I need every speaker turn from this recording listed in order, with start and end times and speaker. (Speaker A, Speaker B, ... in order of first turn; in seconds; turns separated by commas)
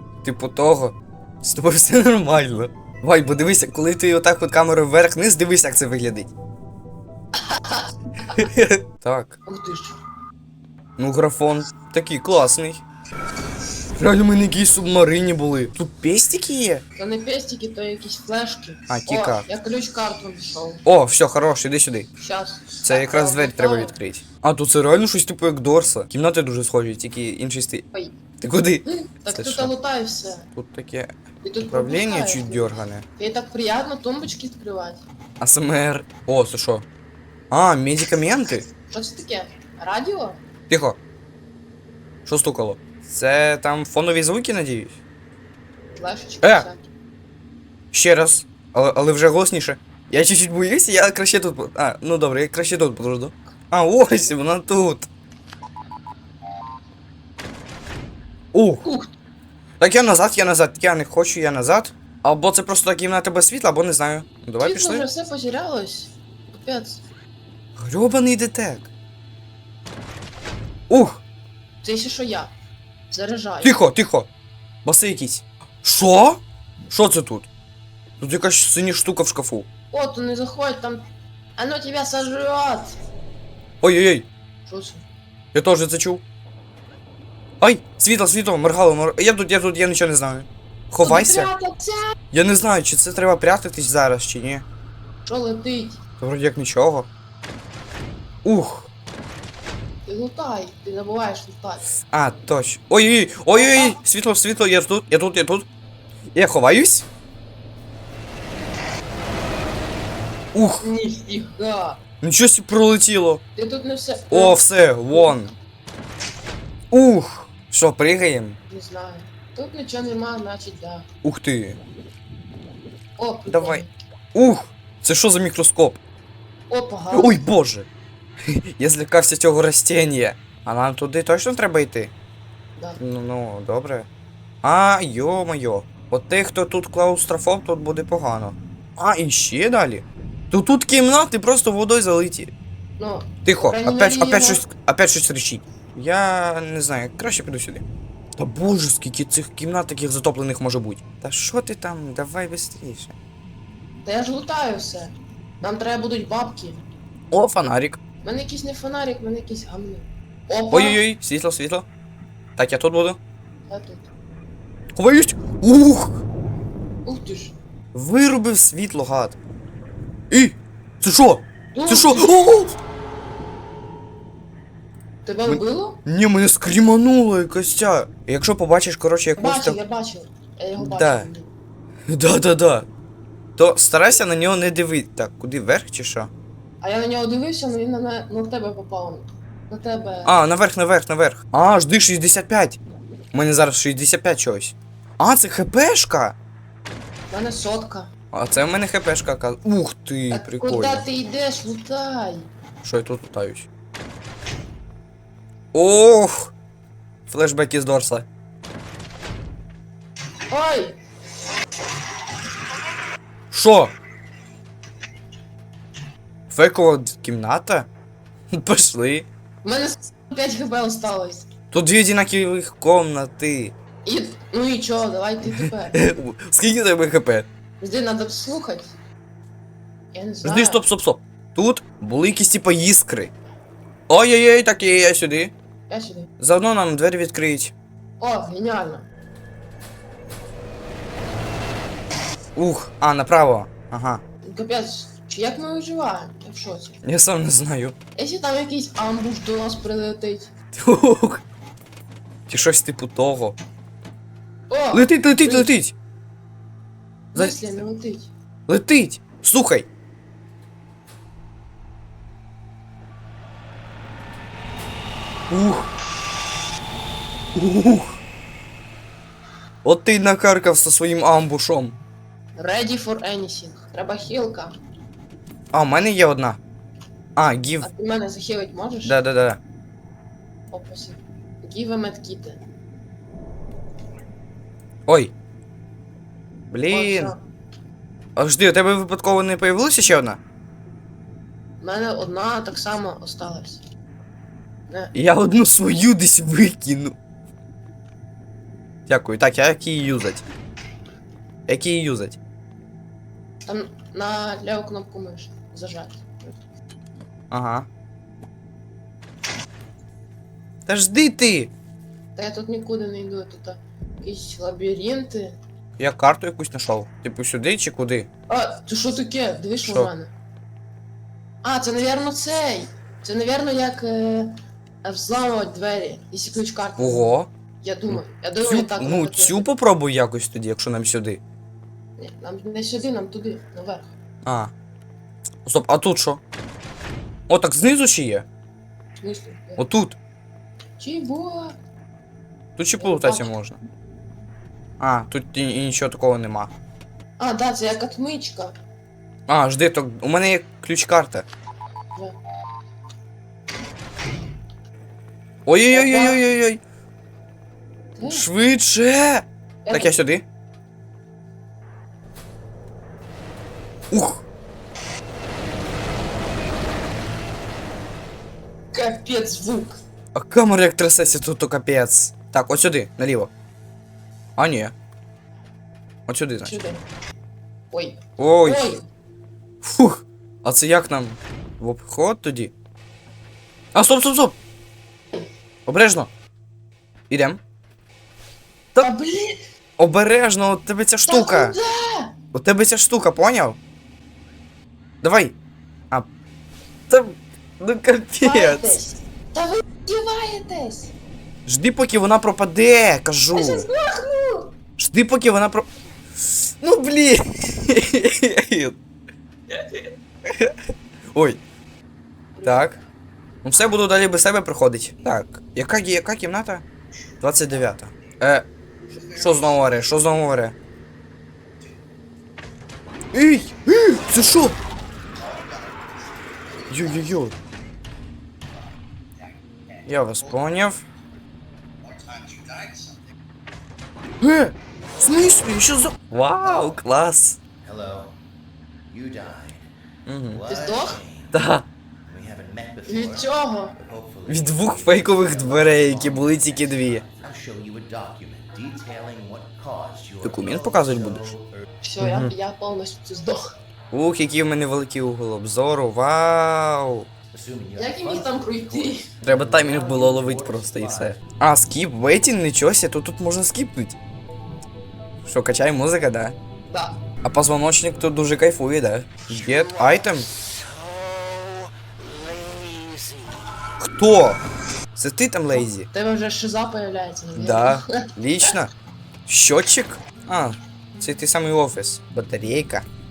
Speaker A: 0.2-6.3, Speaker B: 7.4-8.5, Speaker A: 8.3-9.4, Speaker B: 9.5-10.0, Speaker A: 11.0-12.8, Speaker A: 14.0-16.8, Speaker B: 16.9-20.8, Speaker A: 18.9-19.4, Speaker A: 20.8-22.1, Speaker B: 22.2-23.9, Speaker A: 22.8-27.8, Speaker A: 28.4-29.7, Speaker B: 28.9-30.5, Speaker A: 30.6-31.1, Speaker B: 31.4-35.0, Speaker A: 31.6-33.0, Speaker A: 35.4-36.9, Speaker A: 37.5-38.7, Speaker B: 38.9-40.4, Speaker A: 40.7-41.0, Speaker A: 42.3-45.0, Speaker B: 46.0-46.8, Speaker A: 46.4-46.7, Speaker A: 47.9-55.1, Speaker A: 58.5-58.8, Speaker B: 58.8-59.1, Speaker A: 59.8-65.1, Speaker B: 64.6-67.0, Speaker A: 67.8-68.9, Speaker A: 70.9-71.2, Speaker B: 71.8-72.5, Speaker B: 73.1-73.8, Speaker A: 73.6-74.3, Speaker A: 74.8-77.5, Speaker A: 78.2-79.7, Speaker B: 79.9-81.0, Speaker B: 81.6-83.0, Speaker A: 83.8-84.3, Speaker B: 84.7-85.0, Speaker A: 85.5-86.2, Speaker A: 87.6-91.5, Speaker B: 91.0-92.1, Speaker A: 92.3-94.7, Speaker B: 95.2-96.0, Speaker A: 96.2-97.1, Speaker A: 98.4-98.9, Speaker B: 100.0-101.8, Speaker A: 102.1-105.7, Speaker B: 103.5-104.0, Speaker A: 106.3-107.1, Speaker A: 110.5-110.8, Speaker B: 110.8-112.0, Speaker A: 112.2-113.4, Speaker B: 113.5-114.6, Speaker A: 114.3-115.5, Speaker B: 115.1-115.4, Speaker A: 116.9-118.6, Speaker B: 118.7-121.0, Speaker A: 121.2-121.8, Speaker B: 123.2-123.9, Speaker A: 123.5-126.0, Speaker B: 126.7-127.4, Speaker A: 127.1-127.9, Speaker A: 128.4-132.1, Speaker A: 133.0-134.1, Speaker A: 134.6-142.5, Speaker B: 143.0-144.6, Speaker A: 143.4-147.8, Speaker A: 148.4-153.2, Speaker B: 154.1-156.8, Speaker A: 157.3-158.0, Speaker B: 158.2-161.0, Speaker A: 160.7-161.9, Speaker A: 162.6-163.2, Speaker B: 163.7-164.1, Speaker A: 164.9-166.2, Speaker B: 167.1-167.6, Speaker A: 167.9-169.4, Speaker A: 170.3-172.8, Speaker B: 171.7-172.4, Speaker B: 175.2-176.0, Speaker A: 175.5-179.8, Speaker B: 179.4-181.5, Speaker A: 180.8-181.3, Speaker A: 182.1-182.9, Speaker A: 183.6-186.3, Speaker B: 186.8-190.4, Speaker A: 190.2-192.8, Speaker A: 193.3-196.4, Speaker B: 197.3-198.1, Speaker A: 198.3-201.1, Speaker B: 200.3-202.5, Speaker A: 202.8-203.7, Speaker A: 205.7-206.5, Speaker A: 207.3-208.3, Speaker B: 210.5-211.0, Speaker A: 213.5-213.9, Speaker A: 216.5-217.9, Speaker A: 218.5-219.3, Speaker B: 219.6-221.5, Speaker A: 221.7-223.8, Speaker B: 224.1-226.0, Speaker A: 225.5-227.5, Speaker B: 227.8-228.9, Speaker B: 230.1-230.8, Speaker A: 230.4-233.3, Speaker A: 234.1-235.5, Speaker B: 235.9-236.3, Speaker A: 236.4-237.7, Speaker B: 238.2-239.1, Speaker A: 242.6-244.2, Speaker B: 244.4-247.0, Speaker A: 247.0-247.9, Speaker B: 248.2-250.5, Speaker A: 250.8-251.4, Speaker A: 252.5-253.6, Speaker B: 254.7-255.7, Speaker A: 254.9-255.9, Speaker B: 257.3-258.3, Speaker A: 258.7-259.9, Speaker A: 265.5-265.9, Speaker A: 267.6-268.2, Speaker A: 269.8-272.0, Speaker B: 272.6-274.8, Speaker A: 275.7-276.6, Speaker A: 277.4-277.9, Speaker B: 277.8-279.2, Speaker A: 279.0-279.6, Speaker B: 280.7-282.6, Speaker A: 285.1-285.4, Speaker A: 286.7-287.3, Speaker B: 286.9-287.4, Speaker A: 288.4-290.4, Speaker B: 291.8-293.8, Speaker A: 295.1-297.2, Speaker A: 299.1-300.4, Speaker A: 301.7-302.4, Speaker B: 303.7-306.6, Speaker A: 307.5-307.9, Speaker A: 310.9-311.7, Speaker B: 312.4-315.6, Speaker A: 316.0-318.3, Speaker B: 318.5-320.3, Speaker A: 319.8-320.1, Speaker B: 321.6-329.7, Speaker A: 327.0-327.5, Speaker A: 328.1-331.4, Speaker B: 332.2-334.1, Speaker A: 334.4-334.7, Speaker A: 335.6-336.4, Speaker A: 337.5-338.4, Speaker B: 339.2-339.8, Speaker A: 339.8-340.2, Speaker B: 341.0-341.8, Speaker A: 342.8-343.8, Speaker B: 343.0-343.5, Speaker A: 345.0-346.7, Speaker B: 347.4-348.8, Speaker A: 349.5-351.4, Speaker A: 355.7-356.8, Speaker B: 355.9-356.4, Speaker B: 358.2-358.4, Speaker A: 358.2-360.4, Speaker B: 359.9-360.2, Speaker A: 364.1-364.4, Speaker B: 368.9-370.0, Speaker A: 370.3-373.5, Speaker A: 374.6-374.9, Speaker A: 376.3-376.8, Speaker B: 376.6-377.0, Speaker B: 377.9-379.1, Speaker A: 378.4-378.9, Speaker A: 379.8-382.7, Speaker A: 383.9-384.6, Speaker A: 385.9-386.3, Speaker A: 387.3-387.6, Speaker B: 389.0-389.7, Speaker A: 390.0-391.8, Speaker B: 391.2-392.4, Speaker A: 392.5-393.8, Speaker A: 395.2-395.6, Speaker A: 397.1-399.0, Speaker B: 398.4-401.1, Speaker A: 401.7-403.9, Speaker B: 403.5-404.7, Speaker A: 405.0-405.9, Speaker A: 406.4-408.9, Speaker B: 409.7-410.0, Speaker A: 410.4-410.8, Speaker A: 411.3-411.6, Speaker B: 412.6-412.9, Speaker A: 412.6-412.9, Speaker A: 413.6-416.9, Speaker A: 417.4-420.8, Speaker A: 423.3-424.8, Speaker A: 426.9-427.6, Speaker A: 430.1-431.1, Speaker A: 434.4-437.6, Speaker C: 436.6-437.0, Speaker C: 437.8-438.4, Speaker C: 439.1-439.9, Speaker A: 440.2-440.6, Speaker C: 440.5-441.6, Speaker B: 440.7-441.2, Speaker A: 441.5-441.9, Speaker C: 442.2-451.8, Speaker B: 443.1-443.9, Speaker A: 444.5-447.2, Speaker A: 450.4-451.5, Speaker B: 452.0-453.8, Speaker A: 452.2-452.5, Speaker A: 454.1-457.3, Speaker C: 457.5-461.5, Speaker B: 458.0-459.3, Speaker A: 459.4-464.2, Speaker A: 465.4-466.6, Speaker B: 466.9-467.2, Speaker A: 467.4-470.5, Speaker A: 474.0-474.6, Speaker A: 475.1-476.1, Speaker B: 475.7-478.7, Speaker A: 477.6-478.9, Speaker A: 479.5-483.1